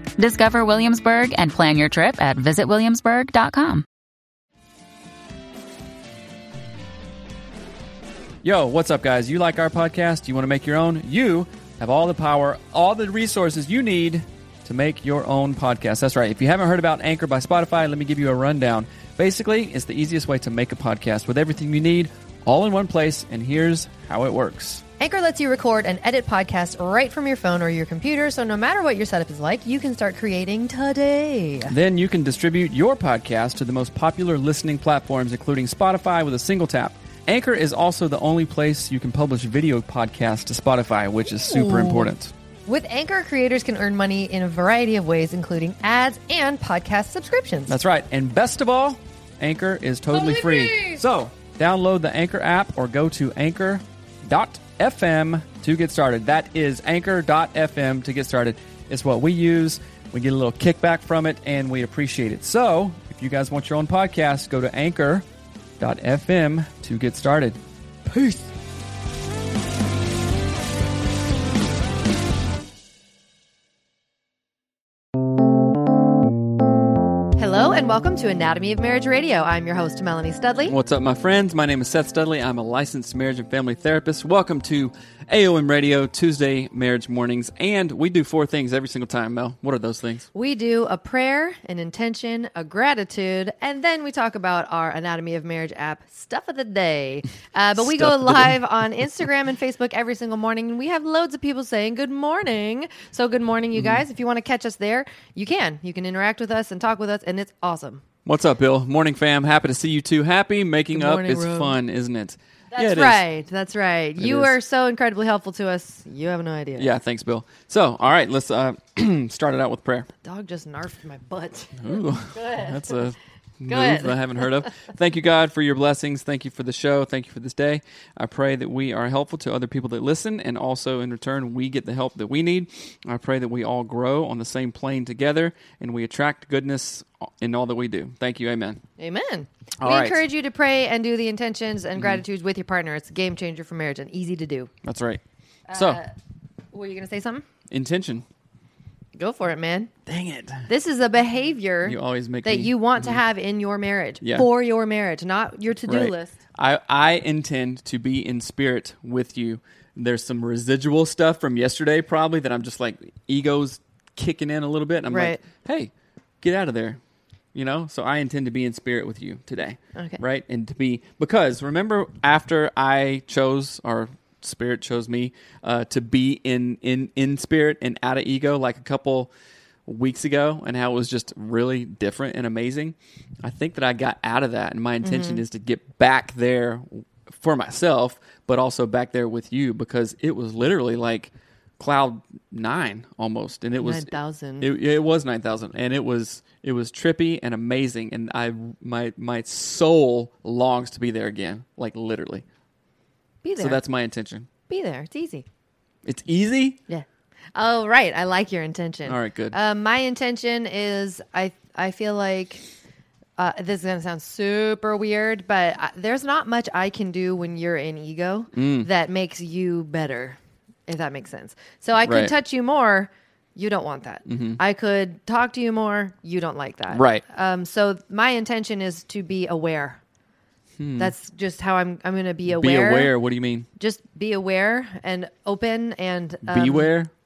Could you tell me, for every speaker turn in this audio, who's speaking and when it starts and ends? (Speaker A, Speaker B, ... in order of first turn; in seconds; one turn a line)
Speaker A: 0.2-3.9
Speaker B: 8.4-24.8
Speaker C: 25.0-31.8
Speaker B: 31.7-42.3
Speaker C: 41.3-42.1
Speaker C: 42.7-47.8
Speaker B: 47.7-65.2
Speaker C: 50.2-51.0
Speaker B: 65.8-68.5
Speaker C: 77.4-80.8
Speaker B: 80.7-90.3
Speaker C: 90.3-108.0
Speaker B: 97.8-98.6
Speaker B: 103.7-104.0
Speaker B: 108.2-113.2
Speaker C: 110.9-111.8
Speaker C: 112.7-116.9
Speaker B: 114.2-114.5
Speaker B: 116.8-120.1
Speaker C: 120.2-123.0
Speaker B: 121.8-138.8
Speaker C: 123.7-124.7
Speaker C: 139.0-144.7
Speaker B: 139.8-140.2
Speaker B: 142.0-142.2
Speaker B: 144.8-145.2
Speaker C: 145.7-146.1
Speaker B: 145.7-146.0
Speaker C: 146.7-147.5
Speaker B: 147.7-148.3
Speaker C: 149.2-149.9
Speaker B: 150.1-150.7
Speaker C: 150.7-156.3
Speaker B: 151.8-153.2
Speaker B: 155.9-167.0
Speaker C: 165.1-165.4
Speaker B: 167.5-179.3
Speaker C: 169.9-170.2
Speaker B: 179.9-202.4
Speaker C: 185.0-185.4
Speaker C: 193.8-194.7
Speaker C: 203.4-203.8
Speaker B: 203.6-204.5
Speaker C: 204.7-205.5
Speaker B: 206.1-206.8
Speaker C: 206.9-212.6
Speaker B: 209.1-209.6
Speaker C: 213.4-230.0
Speaker B: 218.5-218.9
Speaker B: 222.0-222.3
Speaker B: 224.3-224.6
Speaker B: 226.9-227.2
Speaker B: 230.8-231.1
Speaker C: 231.0-233.1
Speaker B: 232.5-233.7
Speaker C: 233.8-236.9
Speaker B: 236.5-237.1